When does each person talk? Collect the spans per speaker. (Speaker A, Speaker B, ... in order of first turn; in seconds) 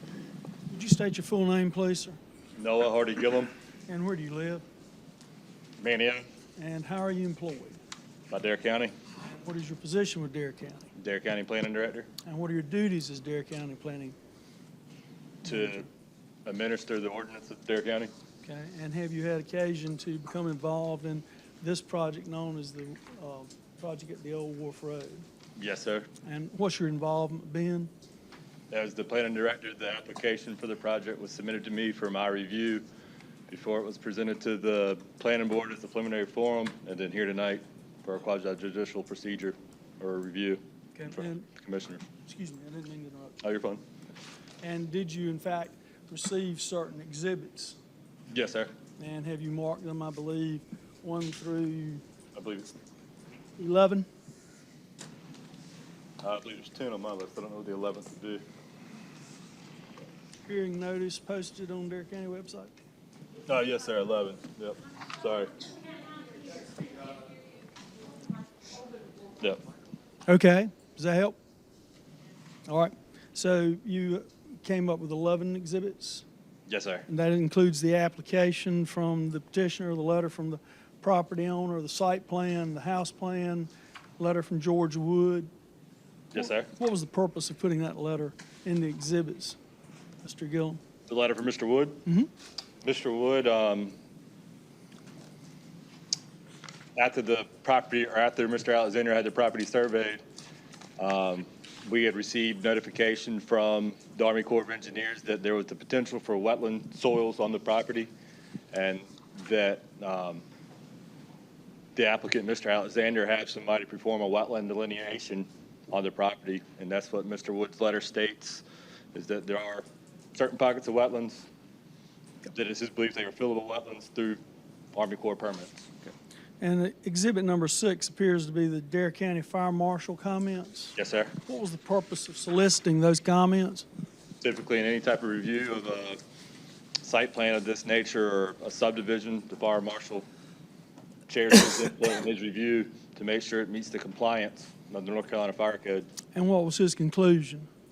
Speaker A: 0.7-2.2, 3.9-4.6, 6.6-7.8, 9.4-10.9, 12.2-14.2, 15.4-15.8, 18.4-25.2, 26.2-27.9, 41.0-41.5, 42.2-43.4, 44.6-47.8, 49.0-52.0, 53.6-54.1, 60.4-62.7, 70.3-71.3, 72.7-76.2, 77.1-85.5, 86.4-89.6, 90.2-90.8, 126.6-133.8, 146.3-147.7
Speaker B: 2.6-3.5, 5.8-6.2, 8.3-8.9, 10.9-12.1, 15.4-15.9, 16.4-18.1, 25.6-26.1, 28.7-32.8, 33.5-42.0, 43.4-43.8, 48.3-48.7, 52.3-52.7, 56.2-58.4, 63.5-65.7, 76.7-77.0, 86.3-86.7, 91.1-92.0, 92.8-93.9, 97.0-100.2, 101.0-108.1, 108.7-110.4, 112.0-119.8, 120.3-121.5, 122.5-124.4, 124.9-126.1, 130.9-131.3, 134.4-136.2, 137.0-140.2, 141.3-146.1